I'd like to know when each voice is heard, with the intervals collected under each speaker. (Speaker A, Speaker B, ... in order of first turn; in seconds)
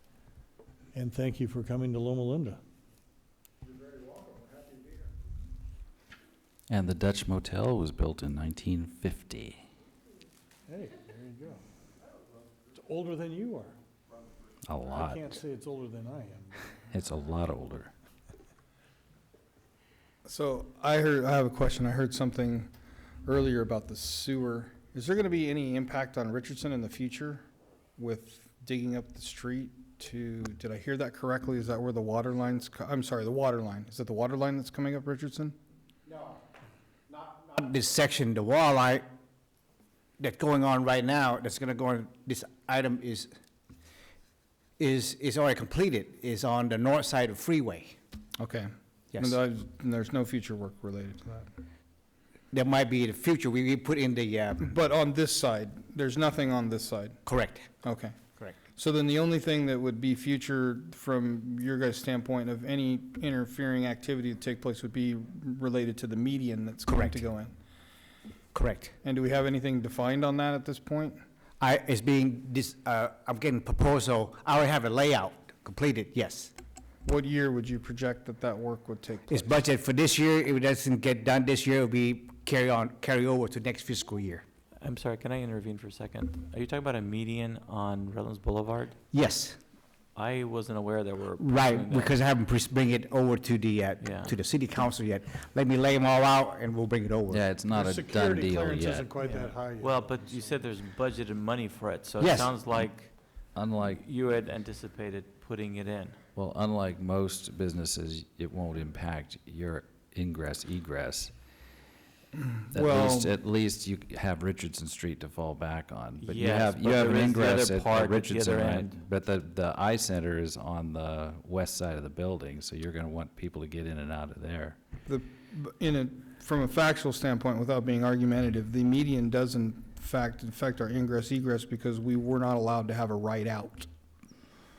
Speaker A: 0.9-2.6, 3.9-5.0, 10.7-11.6, 12.7-13.8, 14.9-16.8, 97.7-100.6
Speaker B: 6.7-9.6, 14.7-15.3, 16.9-17.9, 97.3-99.2, 103.5-104.0, 106.3-111.3, 112.7-124.8
Speaker C: 20.2-22.7, 23.2-27.4, 28.0-35.5, 48.4-51.5, 54.6-57.2, 57.8-58.2, 58.7-67.5, 69.0-71.2, 77.0-79.6, 112.4-113.3, 125.0-133.9
Speaker D: 36.1-36.4, 37.1-39.0, 40.2-43.3, 44.8-48.0, 52.5-54.6, 57.2-57.7, 66.9-67.2, 68.5-68.9, 71.6-76.5, 79.3-84.4, 89.1-89.6, 91.4-97.5, 102.2-102.5
Speaker E: 84.8-89.0, 90.1-92.2, 94.0-94.3, 99.2-106.2, 116.2-119.0